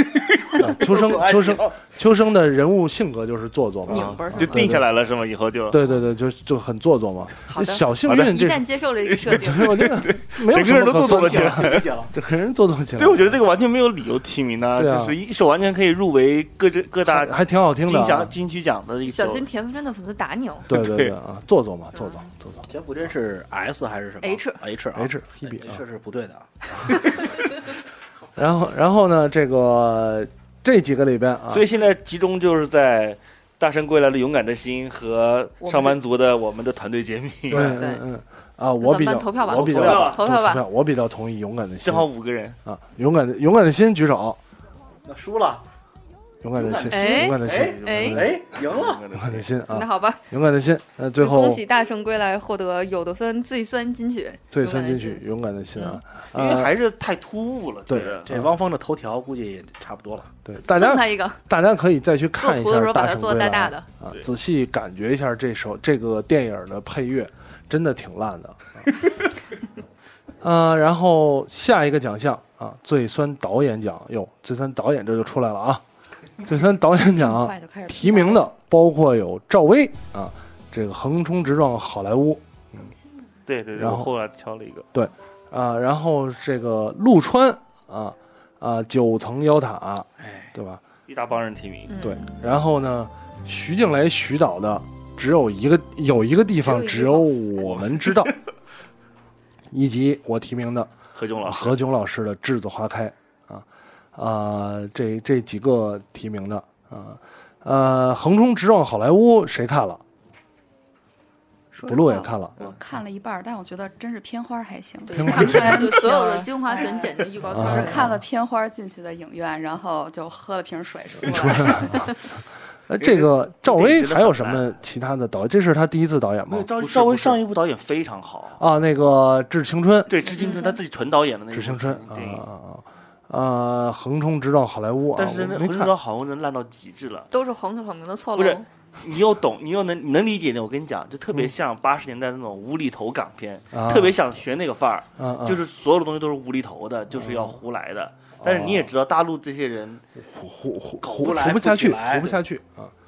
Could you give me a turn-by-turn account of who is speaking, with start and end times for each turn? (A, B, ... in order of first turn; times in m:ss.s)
0:00.6-0:04.9 A
0:00.6-0:01.5 B
0:00.8-0:01.7 C
0:03.9-0:04.6 D
0:03.9-0:05.8 B
0:05.7-0:08.7 A
0:07.5-0:09.9 D
0:08.1-0:08.4 B
0:09.1-0:12.0 B
0:09.3-0:13.4 A
0:11.3-0:12.1 C
0:13.0-0:19.4 B
0:14.8-0:15.2 A
0:17.0-0:18.3 A
0:19.1-0:20.7 D
0:20.7-0:22.7 A
0:20.7-0:21.1 B
0:21.9-0:22.3 D
0:22.7-0:27.4 C
0:24.2-0:24.6 D
0:25.0-0:25.8 A
0:28.4-0:31.7 A
0:31.5-0:37.8 B
0:35.6-0:36.0 D
0:37.5-0:42.1 A
0:37.7-0:38.0 D
0:38.8-0:40.6 D
0:39.4-0:40.2 C
0:39.7-0:40.2 B
0:41.8-0:42.6 B
0:42.6-0:44.4 A
0:45.0-0:45.6 C
0:46.4-0:51.6 A
0:46.5-0:49.0 C
0:46.9-0:48.2 D
0:47.4-0:49.5 B
0:49.7-0:50.2 D
0:51.2-0:55.2 D
0:54.5-0:56.8 A
0:56.3-0:58.3 B
0:57.9-0:58.5 A
0:58.3-1:00.3 C
1:00.4-1:08.7 A
1:00.7-1:01.4 D
1:02.4-1:03.9 D
1:10.4-1:15.8 A
1:16.4-1:22.9 A
1:17.1-1:18.5 E
1:23.5-1:24.9 B
1:23.8-1:24.1 A
1:24.9-1:30.8 A
1:30.2-1:30.5 C
1:31.1-1:31.9 B
1:31.9-1:32.3 D
1:32.0-1:38.4 A
1:36.6-1:37.7 D
1:39.7-1:50.0 A
1:41.2-1:41.8 B
1:51.7-2:02.0 E
1:51.9-1:52.6 A
1:55.0-1:58.2 D
1:55.2-1:56.0 A
1:57.5-1:58.2 A
2:01.2-2:02.1 A
2:01.3-2:02.2 D
2:02.9-2:06.8 A
2:03.0-2:04.8 B
2:06.5-2:08.6 B
2:06.8-2:07.4 C
2:08.6-2:10.3 A
2:10.1-2:12.5 B
2:10.3-2:10.8 D
2:11.5-2:15.9 A
2:15.2-2:17.3 B
2:17.3-2:18.7 D
2:18.4-2:30.0 B
2:23.7-2:24.2 A
2:25.2-2:25.6 A
2:27.2-2:27.6 A
2:28.4-2:28.9 A
2:30.3-2:32.9 A
2:31.0-2:32.4 C